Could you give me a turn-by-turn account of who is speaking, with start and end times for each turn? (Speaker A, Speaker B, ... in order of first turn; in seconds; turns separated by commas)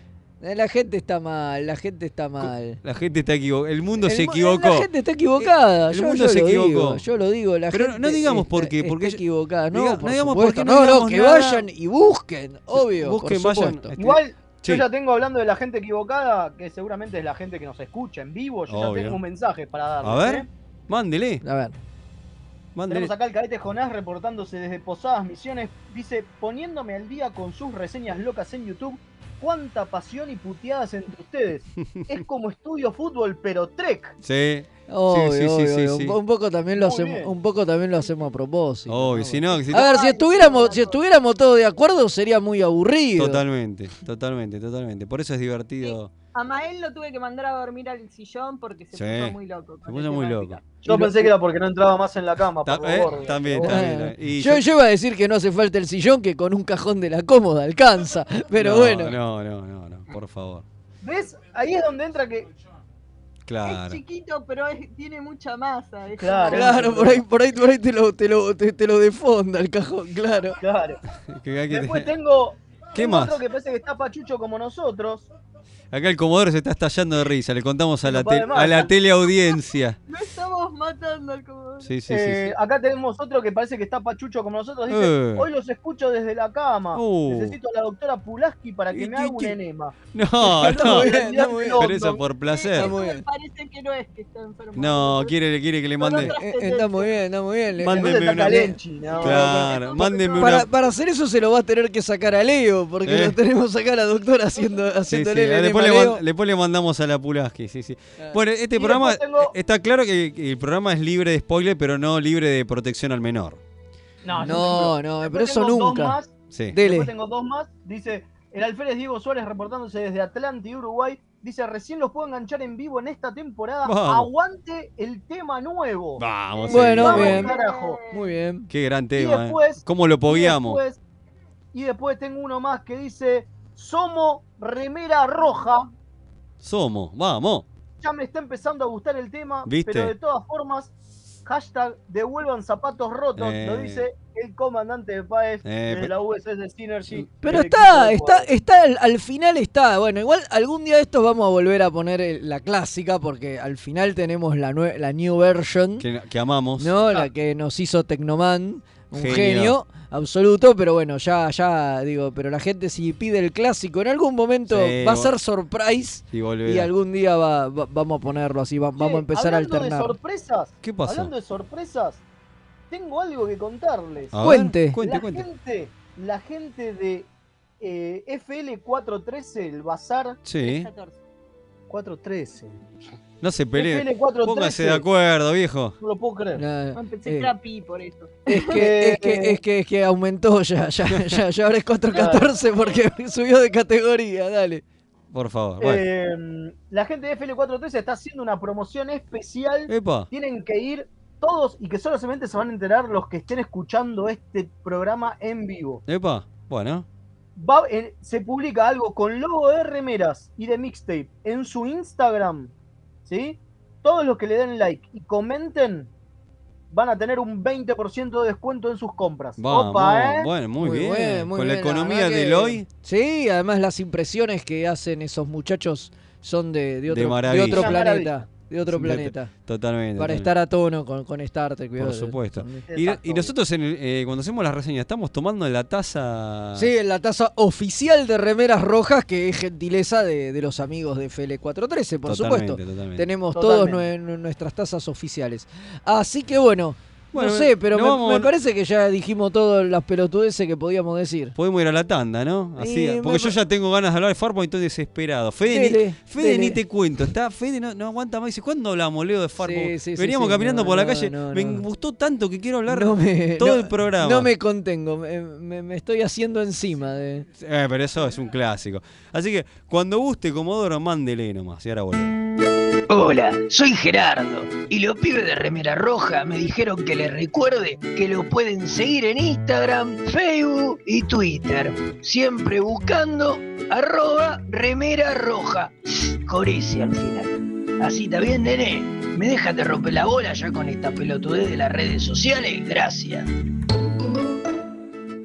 Speaker A: 0.4-2.8, Speaker B: 2.4-4.9, Speaker A: 4.0-13.9, Speaker B: 5.4-7.0, Speaker B: 7.7-9.2, Speaker B: 9.7-11.7, Speaker B: 12.7-14.8, Speaker C: 14.0-20.5, Speaker B: 18.7-19.2, Speaker B: 20.0-21.4, Speaker A: 21.4-21.8, Speaker B: 22.7-23.1, Speaker C: 22.9-34.1, Speaker B: 34.2-36.1, Speaker A: 34.9-43.4, Speaker C: 36.7-37.3, Speaker B: 38.9-39.9, Speaker D: 39.7-41.0, Speaker B: 43.2-46.1, Speaker D: 45.8-50.6, Speaker B: 48.9-50.6, Speaker C: 50.8-53.8, Speaker A: 50.9-51.3, Speaker B: 52.6-54.6, Speaker A: 53.6-59.1, Speaker B: 58.5-60.6, Speaker C: 61.0-62.5, Speaker B: 63.5-64.0, Speaker D: 63.6-66.9, Speaker C: 66.2-67.2, Speaker A: 66.5-70.6, Speaker C: 70.6-71.0, Speaker B: 71.3-72.1, Speaker C: 71.7-75.3, Speaker B: 72.9-73.4, Speaker B: 75.9-80.0, Speaker C: 78.0-78.9, Speaker D: 80.1-81.9, Speaker B: 81.8-82.5, Speaker C: 82.1-90.0, Speaker B: 84.9-85.5, Speaker B: 86.9-87.6, Speaker B: 88.9-89.6, Speaker B: 90.1-93.0, Speaker C: 90.5-92.2, Speaker A: 90.6-91.9, Speaker D: 92.5-95.3, Speaker A: 92.8-93.2, Speaker B: 94.7-96.3, Speaker D: 96.0-97.2, Speaker A: 96.2-98.6, Speaker B: 97.8-100.7, Speaker C: 97.9-99.7, Speaker D: 99.1-100.7, Speaker A: 100.4-106.2, Speaker B: 103.0-103.3, Speaker B: 105.1-113.6, Speaker C: 108.8-109.5, Speaker C: 114.2-128.0, Speaker A: 114.4-116.2, Speaker B: 116.5-116.8, Speaker A: 116.7-117.1, Speaker B: 123.8-124.3, Speaker B: 126.2-127.4, Speaker A: 126.7-127.5, Speaker D: 127.0-128.3, Speaker A: 128.1-128.7, Speaker B: 128.7-130.8, Speaker C: 129.2-131.0, Speaker C: 131.7-135.9, Speaker B: 136.6-137.7, Speaker C: 138.0-140.9, Speaker B: 139.7-140.1, Speaker C: 141.4-148.5, Speaker B: 143.3-144.1, Speaker B: 145.6-146.1, Speaker A: 147.4-156.1, Speaker B: 156.0-156.9, Speaker A: 156.8-170.2, Speaker B: 159.1-159.8, Speaker B: 164.7-165.3, Speaker B: 166.3-166.9, Speaker C: 169.0-172.2, Speaker B: 170.8-171.3, Speaker C: 172.9-174.4, Speaker B: 174.3-175.4, Speaker A: 174.4-175.0, Speaker C: 175.0-177.3, Speaker C: 177.8-180.4, Speaker B: 180.4-180.9, Speaker D: 180.6-181.2, Speaker C: 181.9-183.0, Speaker B: 183.4-185.9, Speaker C: 183.8-185.0, Speaker C: 186.0-186.6, Speaker A: 186.5-187.5, Speaker D: 186.9-188.7, Speaker A: 188.5-194.8, Speaker C: 188.7-189.6, Speaker C: 192.1-192.5, Speaker B: 195.3-196.0, Speaker C: 195.8-206.0, Speaker B: 199.9-200.3, Speaker B: 206.1-207.1, Speaker C: 207.6-212.7, Speaker C: 213.2-216.1, Speaker C: 216.9-220.5, Speaker B: 219.6-222.8, Speaker A: 220.8-229.5, Speaker B: 227.1-228.0, Speaker C: 227.7-228.4, Speaker B: 228.8-230.5, Speaker A: 230.2-232.8, Speaker B: 232.0-236.9, Speaker C: 232.9-233.5, Speaker A: 236.8-251.5, Speaker B: 242.2-243.2, Speaker C: 243.5-244.1, Speaker B: 247.3-248.5, Speaker B: 251.5-264.5, Speaker A: 252.8-253.6, Speaker A: 255.7-256.8, Speaker A: 259.6-261.8, Speaker A: 262.9-267.4, Speaker B: 267.5-272.3, Speaker E: 273.1-293.5